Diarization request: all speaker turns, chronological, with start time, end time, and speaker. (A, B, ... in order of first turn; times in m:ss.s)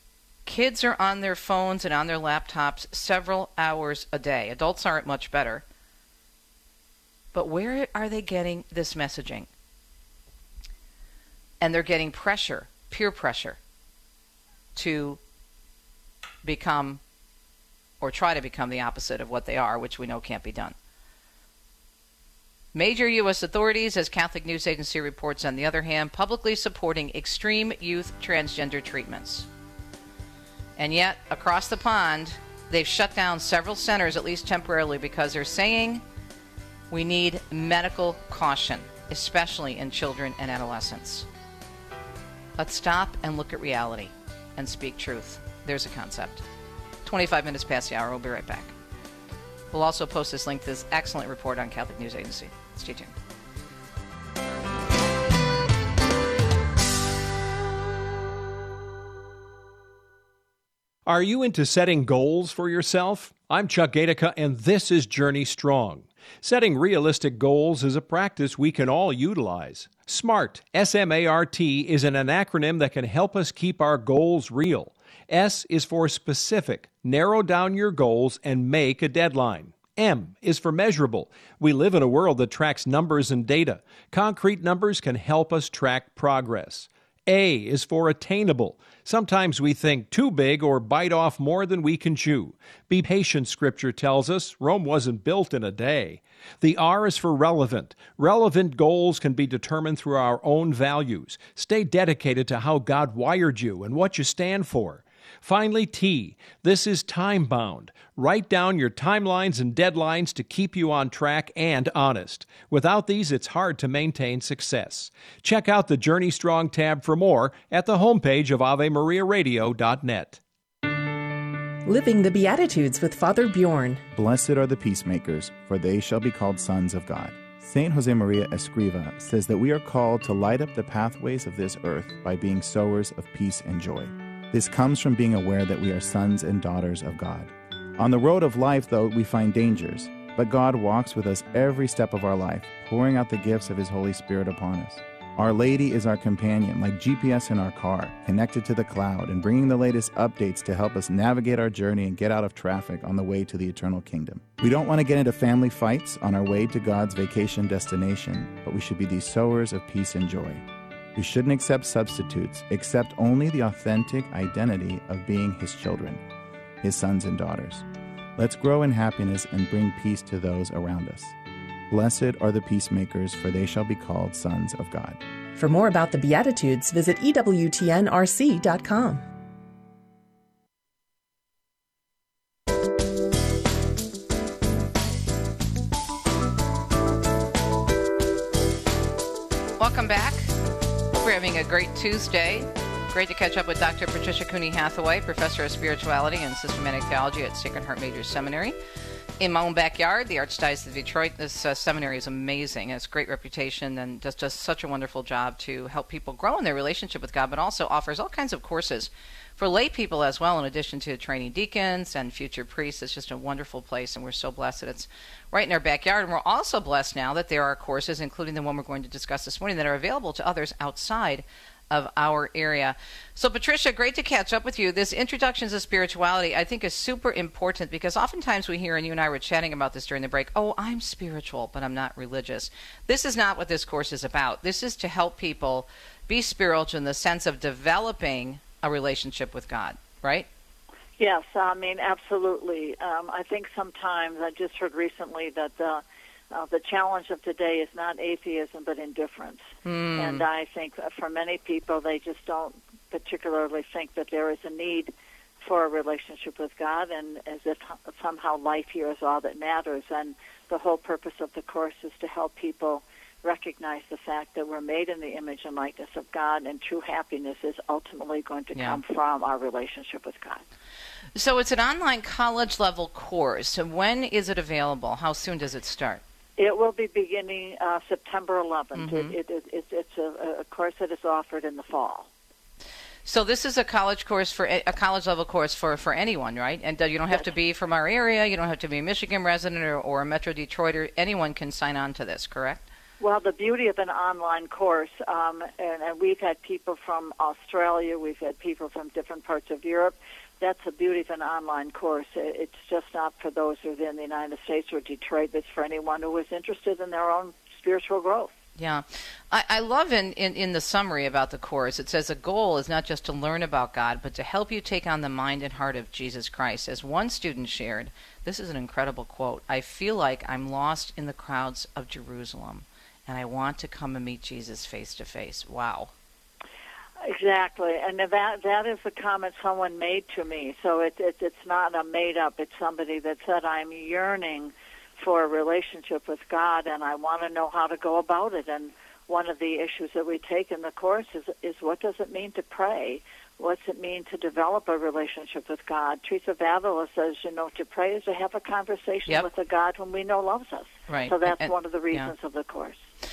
0:00.5-0:05.6 A
0:07.3-0:09.5 A
0:11.6-0:13.6 A
0:14.8-0:15.2 A
0:16.4-0:17.0 A
0:18.0-0:20.8 A
0:22.7-0:29.5 A
0:30.8-0:36.0 A
0:36.9-0:41.3 A
0:42.6-0:46.4 A
0:47.0-0:48.7 A
0:49.7-0:53.2 A
1:01.1-2:00.4 B
2:01.8-2:04.0 C
2:04.1-2:40.6 D
2:41.2-2:46.2 D
2:46.8-2:47.8 D
2:48.4-2:51.4 D
2:51.9-2:55.2 D
2:55.6-2:59.2 C
3:09.8-3:10.5 A
3:11.2-3:18.8 A
3:19.4-4:00.5 A
4:01.2-4:09.6 E
4:09.8-4:10.5 A
4:10.2-4:30.6 E
4:28.8-4:29.0 A
4:31.4-4:36.2 A
4:36.6-4:42.3 E
4:38.9-4:39.4 A
4:43.3-4:52.9 A
4:53.2-5:08.5 E
5:08.8-5:26.1 A
5:27.2-5:53.0 E
5:51.1-5:52.3 A